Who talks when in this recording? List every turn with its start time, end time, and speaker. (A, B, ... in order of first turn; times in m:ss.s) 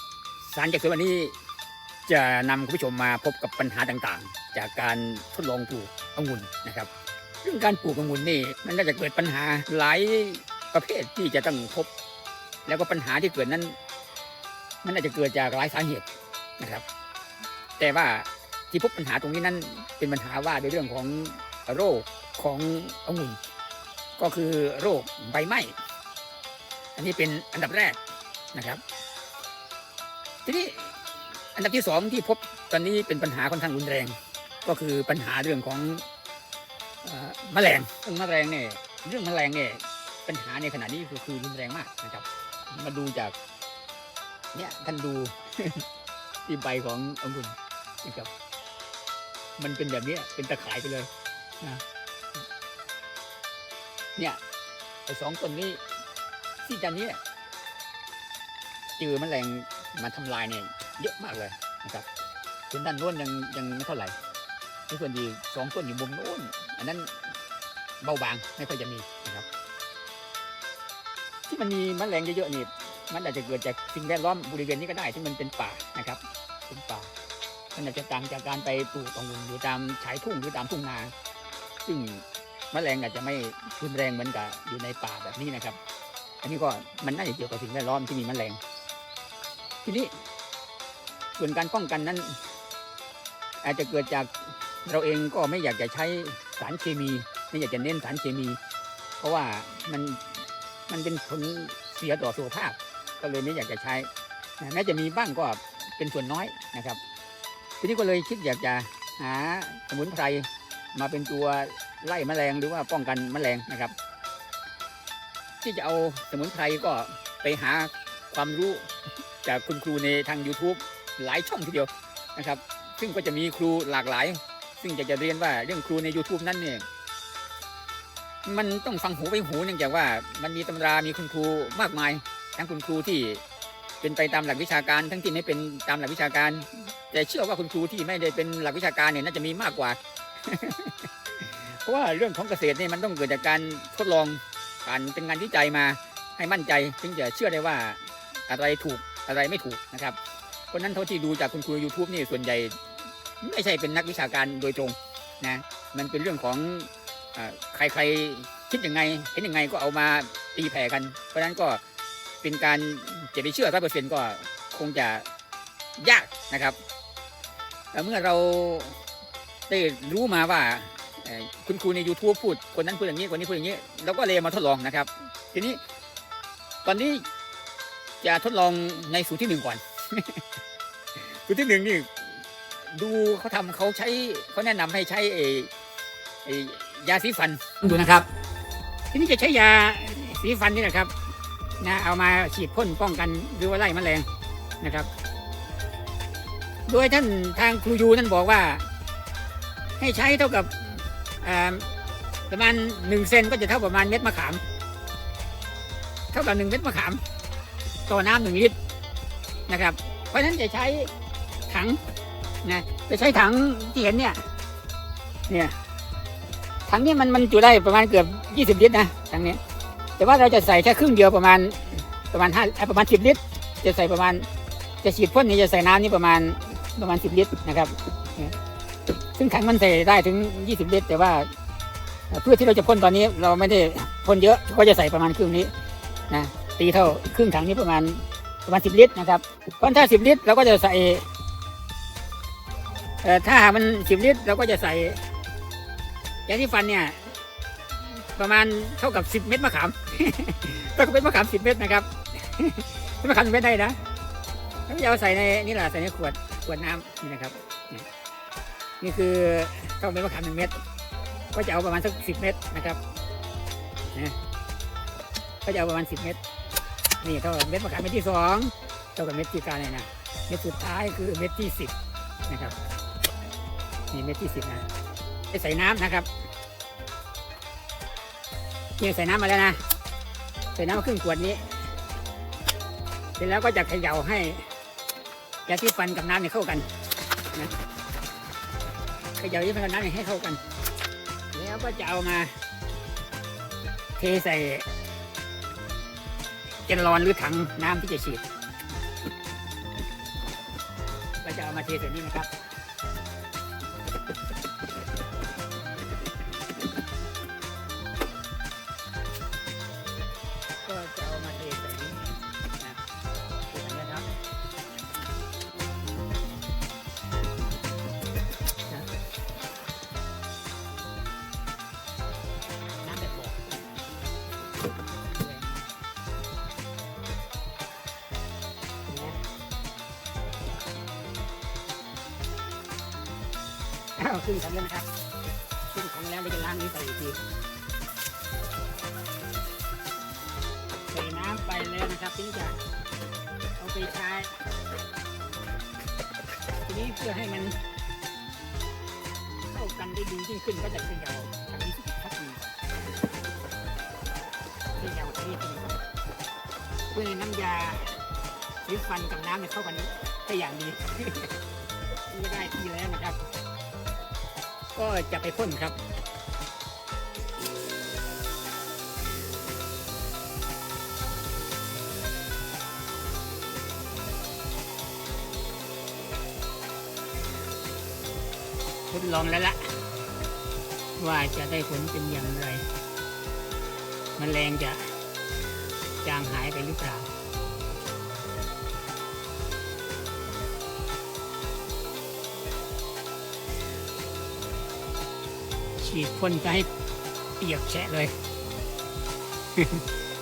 0:00.4-0:01.3 A
0:02.0-0:06.9 A
0:07.4-0:11.9 A
0:12.6-0:13.8 A
0:14.8-0:16.1 A
0:16.6-0:16.8 A
0:17.8-0:23.4 A
0:24.2-0:25.7 A
0:27.0-0:28.0 A
0:28.5-0:28.8 A
0:30.4-0:30.9 A
0:31.5-0:34.1 A
0:34.6-0:36.0 A
0:37.0-0:43.3 A
0:44.5-0:45.8 A
0:46.4-0:48.3 A
0:49.6-0:51.1 A
0:55.1-0:55.8 A
0:56.6-0:57.2 A
0:59.0-1:02.1 A
1:02.7-1:04.1 A
1:04.9-1:07.1 A
1:08.0-1:09.4 A
1:11.5-1:17.1 A
1:17.7-1:21.1 A
1:21.8-1:25.8 A
1:26.4-1:28.6 A
1:29.8-1:30.1 A
1:31.4-1:32.4 A
1:33.6-1:34.3 A
1:34.8-1:38.6 A
1:39.2-1:40.2 A
1:40.9-1:44.1 A
1:44.6-1:47.0 A
1:47.8-1:53.9 A
1:55.6-1:58.9 A
1:59.4-2:06.8 A
2:08.4-2:13.4 A
2:14.0-2:30.2 A
2:30.7-2:32.8 A
2:33.4-2:41.8 A
2:42.4-2:45.2 A
2:46.0-2:46.8 A
2:47.9-2:49.0 A
2:49.7-2:55.8 A
2:56.8-2:57.2 A
2:58.2-3:00.4 A
3:01.2-3:02.1 A
3:02.9-3:05.7 A
3:06.4-3:08.2 A
3:09.1-3:11.1 A
3:11.8-3:14.2 A
3:14.8-3:15.1 A
3:16.9-3:18.8 A
3:20.0-3:21.9 A
3:22.5-3:24.6 A
3:26.3-3:27.2 A
3:28.1-3:28.7 A
3:29.7-3:31.1 A
3:31.7-3:32.0 A
3:32.6-3:34.4 A
3:35.5-3:35.8 A
3:36.9-3:39.6 A
3:40.2-3:44.5 A
3:45.0-3:48.5 A
3:49.4-3:51.5 A
3:52.3-3:55.7 A
3:56.3-4:01.2 A
4:03.2-4:05.2 A
4:06.5-4:07.4 A
4:08.2-4:14.0 A
4:14.9-4:18.1 A
4:19.0-4:20.8 A
4:21.5-4:23.0 A
4:25.6-4:26.4 A
4:27.2-4:31.9 A
4:32.5-4:32.8 A
4:34.1-4:34.9 A
4:35.5-4:36.3 A
4:39.0-4:39.8 A
4:40.8-4:41.8 A
4:43.4-4:44.7 A
4:45.6-4:46.9 A
4:49.4-4:50.6 A
4:51.5-4:52.6 A
4:54.2-4:54.8 A
4:56.8-4:58.4 A
5:01.4-5:02.5 A
5:10.8-5:13.0 A
5:13.7-5:14.3 A
5:23.0-5:23.8 A
5:25.3-5:25.8 A
5:29.1-5:29.4 A
5:34.2-5:35.1 A
5:35.9-5:37.4 A
5:41.1-5:42.8 A
5:43.8-5:44.6 A
5:46.8-5:47.8 A
5:49.7-5:52.8 A
5:55.0-5:56.0 A
5:57.1-5:58.2 A
5:58.8-6:01.5 A
6:02.3-6:03.4 A
6:04.9-6:06.0 A
6:19.1-6:20.0 A
6:21.2-6:22.9 A
6:24.4-6:25.2 A
6:26.2-6:27.3 A
6:36.0-6:36.9 A
6:37.6-6:38.3 A